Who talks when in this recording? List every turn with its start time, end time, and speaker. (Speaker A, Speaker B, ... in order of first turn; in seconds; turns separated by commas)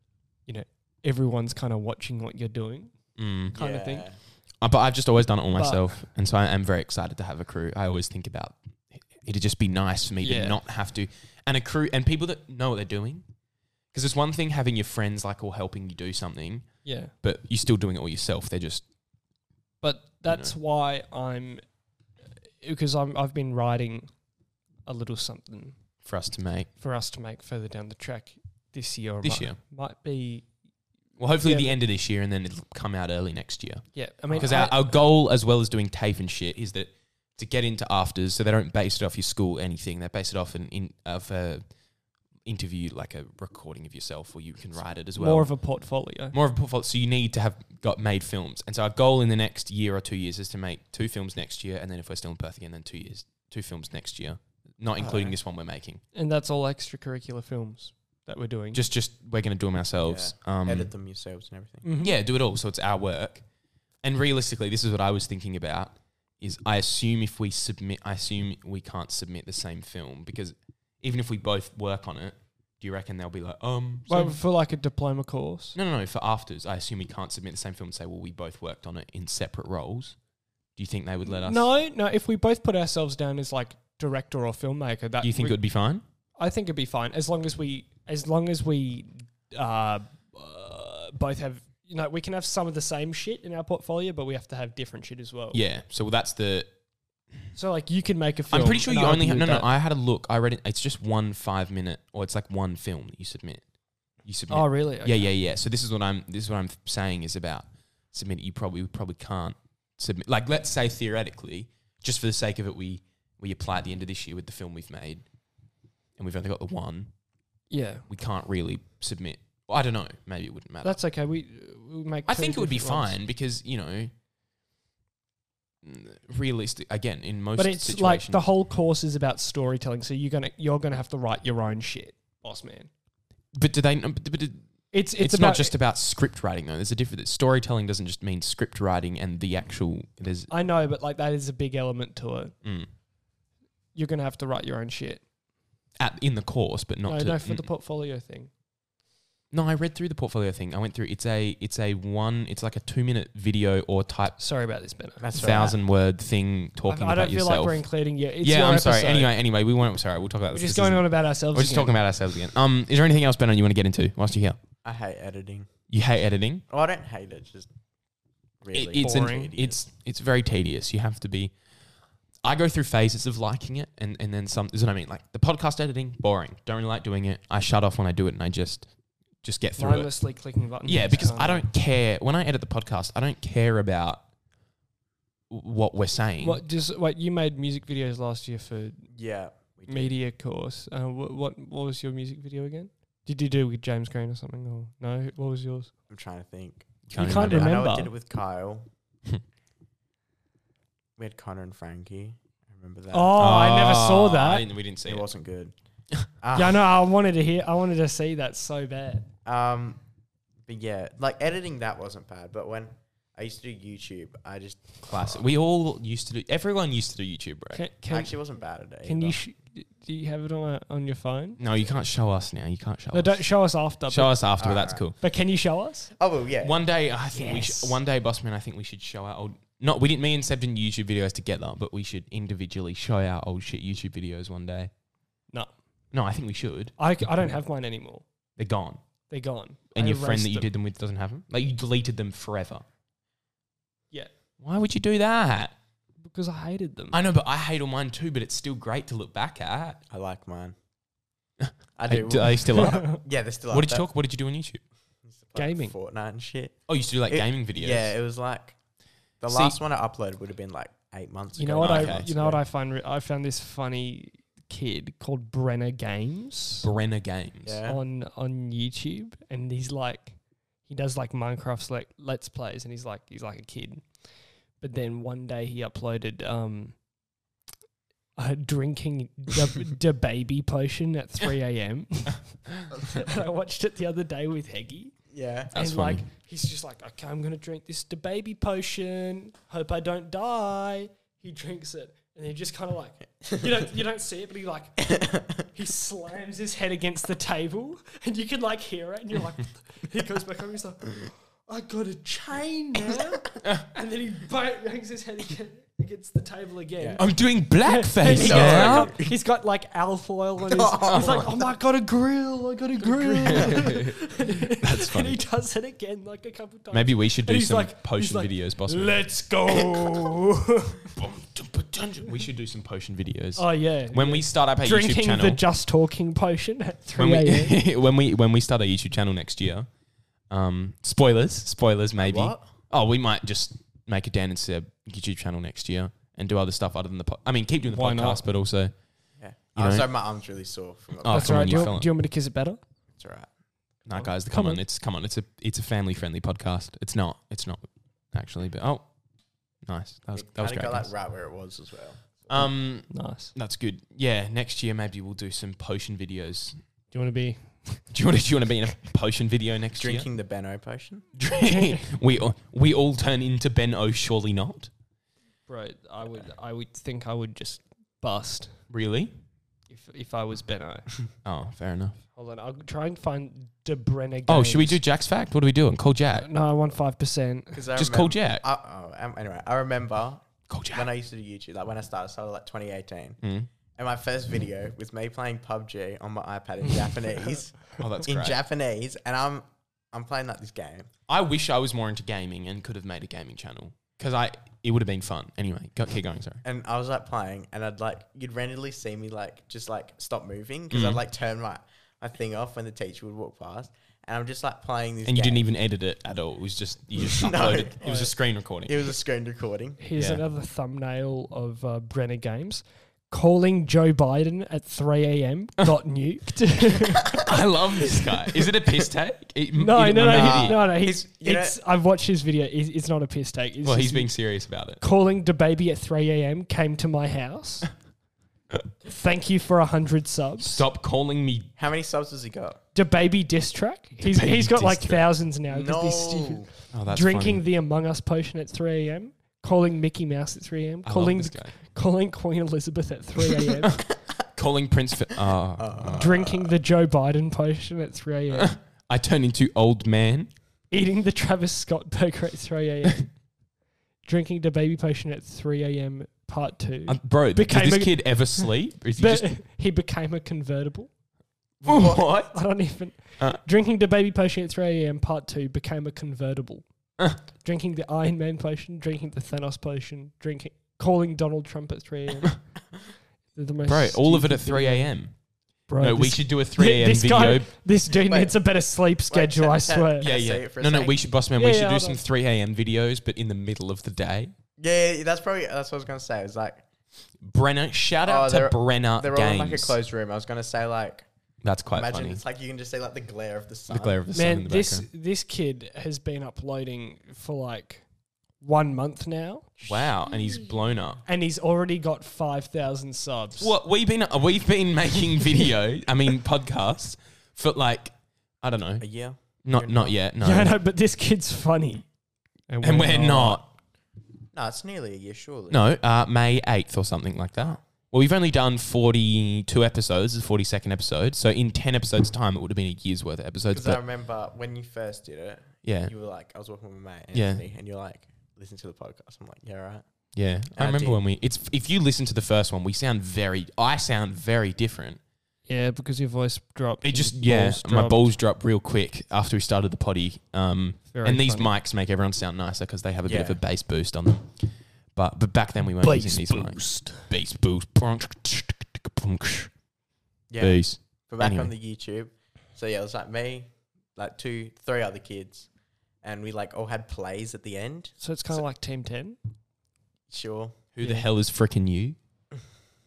Speaker A: 0.5-3.0, Speaker B: 3.2-3.5, Speaker A: 3.5-4.0, Speaker C: 3.5-4.2, Speaker B: 4.6-8.6, Speaker A: 5.5-6.0, Speaker B: 9.1-13.2, Speaker A: 10.2-10.6, Speaker B: 13.9-18.9, Speaker A: 16.9-17.1, Speaker A: 19.8-21.6, Speaker B: 20.3-20.5, Speaker A: 22.6-24.1, Speaker A: 24.9-25.8, Speaker B: 26.0-26.7, Speaker A: 26.8-30.5, Speaker B: 29.2-29.6, Speaker B: 31.2-41.6, Speaker A: 31.4-31.8, Speaker A: 34.0-34.9, Speaker C: 34.3-34.6, Speaker B: 42.5-45.5, Speaker A: 45.2-46.4, Speaker B: 46.3-56.0, Speaker C: 55.0-55.4, Speaker A: 56.1-58.8, Speaker B: 58.7-60.9, Speaker C: 60.0-61.9, Speaker A: 61.8-62.1, Speaker B: 62.0-63.4, Speaker B: 64.0-74.4, Speaker A: 74.1-75.8, Speaker B: 75.7-80.2, Speaker B: 80.8-81.7, Speaker A: 81.2-85.6, Speaker B: 85.2-86.0, Speaker A: 86.4-95.6, Speaker B: 95.5-96.7, Speaker A: 97.5-99.7, Speaker B: 98.5-103.6, Speaker B: 104.2-115.2, Speaker A: 104.5-105.3, Speaker B: 116.2-117.1, Speaker A: 117.7-118.0, Speaker B: 118.1-121.0, Speaker A: 120.8-123.2, Speaker B: 122.3-124.1, Speaker B: 125.8-128.5, Speaker A: 127.5-132.9, Speaker B: 133.6-134.6, Speaker A: 134.9-135.7, Speaker B: 135.2-140.5, Speaker A: 140.5-142.6, Speaker B: 142.6-142.9, Speaker A: 143.9-145.2, Speaker B: 146.0-147.7, Speaker A: 147.1-148.5, Speaker B: 149.5-154.4, Speaker A: 154.4-155.2, Speaker C: 155.2-155.8, Speaker B: 155.3-157.8, Speaker A: 156.9-159.3, Speaker B: 158.4-164.6, Speaker A: 160.5-161.9, Speaker C: 164.8-165.7, Speaker B: 165.9-166.6, Speaker C: 166.7-167.7, Speaker C: 168.6-169.8, Speaker B: 168.7-171.6, Speaker A: 169.0-169.5, Speaker B: 172.4-178.9, Speaker B: 179.4-180.2, Speaker A: 179.8-181.7, Speaker B: 180.8-184.2, Speaker B: 185.5-186.6, Speaker A: 186.4-189.1, Speaker C: 189.1-190.1, Speaker A: 189.9-195.9, Speaker C: 196.1-198.9, Speaker B: 197.1-197.7, Speaker A: 197.2-198.1, Speaker C: 201.2-203.4, Speaker A: 203.1-204.7, Speaker B: 203.4-205.3, Speaker C: 205.1-205.7, Speaker C: 206.4-206.9, Speaker A: 206.5-209.3, Speaker C: 209.4-210.0, Speaker C: 210.7-215.4, Speaker B: 215.0-217.8, Speaker A: 217.7-218.3, Speaker C: 218.1-219.4, Speaker A: 219.1-221.6, Speaker B: 221.6-223.4, Speaker A: 223.1-224.4, Speaker B: 224.1-225.2, Speaker C: 224.6-225.0, Speaker A: 225.2-226.1, Speaker C: 226.2-226.9, Speaker B: 226.6-234.9, Speaker A: 227.3-227.9, Speaker B: 236.1-236.9, Speaker A: 237.0-238.2, Speaker B: 238.6-239.0, Speaker A: 239.3-240.7, Speaker B: 239.9-242.8, Speaker B: 244.6-245.7, Speaker A: 246.2-247.2, Speaker B: 247.1-250.0, Speaker C: 250.1-250.7, Speaker B: 251.6-253.2, Speaker C: 252.0-254.1, Speaker B: 253.7-254.8, Speaker C: 255.3-258.8, Speaker A: 255.6-255.9, Speaker B: 256.9-258.1, Speaker C: 259.4-262.6, Speaker B: 259.5-259.8, Speaker A: 261.6-266.9, Speaker B: 261.8-262.3, Speaker B: 266.8-267.8, Speaker C: 267.7-268.0, Speaker A: 267.9-274.3, Speaker A: 274.8-277.0, Speaker A: 278.4-285.2, Speaker C: 285.3-285.7, Speaker A: 285.7-321.1, Speaker B: 285.7-286.2, Speaker C: 295.1-295.4, Speaker B: 307.2-309.1, Speaker C: 308.2-309.4, Speaker C: 310.7-311.5, Speaker B: 311.1-311.4, Speaker B: 313.2-315.4, Speaker B: 316.9-319.3, Speaker B: 321.1-325.6, Speaker A: 323.6-327.8, Speaker B: 327.2-329.9, Speaker B: 330.5-338.9, Speaker C: 332.2-332.6, Speaker A: 337.9-338.4, Speaker C: 339.4-341.9, Speaker B: 339.8-340.1, Speaker B: 341.2-342.1, Speaker A: 341.3-342.8, Speaker C: 343.2-343.5, Speaker B: 344.1-349.1, Speaker A: 344.1-344.8, Speaker B: 349.8-351.1, Speaker C: 350.4-352.6, Speaker B: 352.5-356.8, Speaker A: 353.1-353.5, Speaker A: 357.1-358.1, Speaker B: 358.1-360.3, Speaker C: 360.0-361.3, Speaker B: 361.4-364.9, Speaker A: 361.6-362.1, Speaker A: 365.7-368.8, Speaker B: 368.9-369.3, Speaker A: 369.9-371.1, Speaker B: 371.4-372.2, Speaker A: 372.4-375.0, Speaker B: 374.5-376.5, Speaker A: 376.4-377.8, Speaker C: 377.7-383.4, Speaker B: 377.9-378.6, Speaker B: 380.7-381.1, Speaker B: 383.4-383.7, Speaker C: 383.9-391.1, Speaker B: 388.0-388.6, Speaker B: 391.3-396.6, Speaker C: 396.6-405.6, Speaker B: 400.9-401.2, Speaker B: 405.2-409.1, Speaker C: 407.2-408.1, Speaker A: 408.0-408.3, Speaker C: 408.9-410.0, Speaker A: 410.0-417.5, Speaker B: 410.2-410.4, Speaker B: 417.3-420.8, Speaker A: 419.8-424.3, Speaker C: 420.2-421.8, Speaker B: 423.8-425.0, Speaker A: 425.0-427.9, Speaker A: 429.0-430.8, Speaker B: 430.6-431.7, Speaker C: 431.8-432.8, Speaker A: 432.9-444.0, Speaker B: 434.2-435.3, Speaker C: 435.7-436.7, Speaker B: 436.9-437.6, Speaker B: 441.0-441.8, Speaker B: 444.5-446.2, Speaker C: 445.8-446.8, Speaker A: 446.1-448.8, Speaker B: 448.5-450.5, Speaker A: 450.9-453.4, Speaker A: 454.2-461.1, Speaker B: 457.1-459.5, Speaker B: 461.8-462.6, Speaker C: 461.9-462.2, Speaker A: 462.0-466.9, Speaker B: 463.2-463.6, Speaker A: 467.6-472.6, Speaker A: 473.6-475.1, Speaker B: 473.9-475.4, Speaker A: 475.9-480.3, Speaker B: 475.9-477.7, Speaker C: 478.2-478.6, Speaker C: 479.3-481.2, Speaker B: 480.2-484.5, Speaker A: 481.6-482.2, Speaker C: 484.8-486.9, Speaker B: 487.4-489.9, Speaker C: 488.2-491.3, Speaker B: 491.6-492.4, Speaker C: 491.9-494.2, Speaker B: 493.9-495.1, Speaker A: 494.3-498.1, Speaker A: 498.6-500.1, Speaker B: 499.9-501.2, Speaker A: 501.2-503.7, Speaker B: 503.6-509.1, Speaker C: 509.0-510.2, Speaker B: 509.6-510.7, Speaker A: 510.4-512.0, Speaker A: 512.7-513.6, Speaker B: 512.8-513.7, Speaker C: 514.5-515.8, Speaker B: 515.7-524.0, Speaker C: 523.7-530.0, Speaker B: 525.8-526.1, Speaker B: 527.3-527.7, Speaker B: 530.4-535.2, Speaker C: 530.7-531.2, Speaker A: 535.7-538.3, Speaker B: 537.0-549.7, Speaker A: 541.1-541.7, Speaker C: 543.2-543.6, Speaker A: 546.0-547.3, Speaker C: 550.5-555.7, Speaker B: 550.6-551.7, Speaker C: 556.2-558.6, Speaker A: 558.2-559.4, Speaker C: 560.3-560.8, Speaker B: 561.0-562.2, Speaker A: 561.0-561.3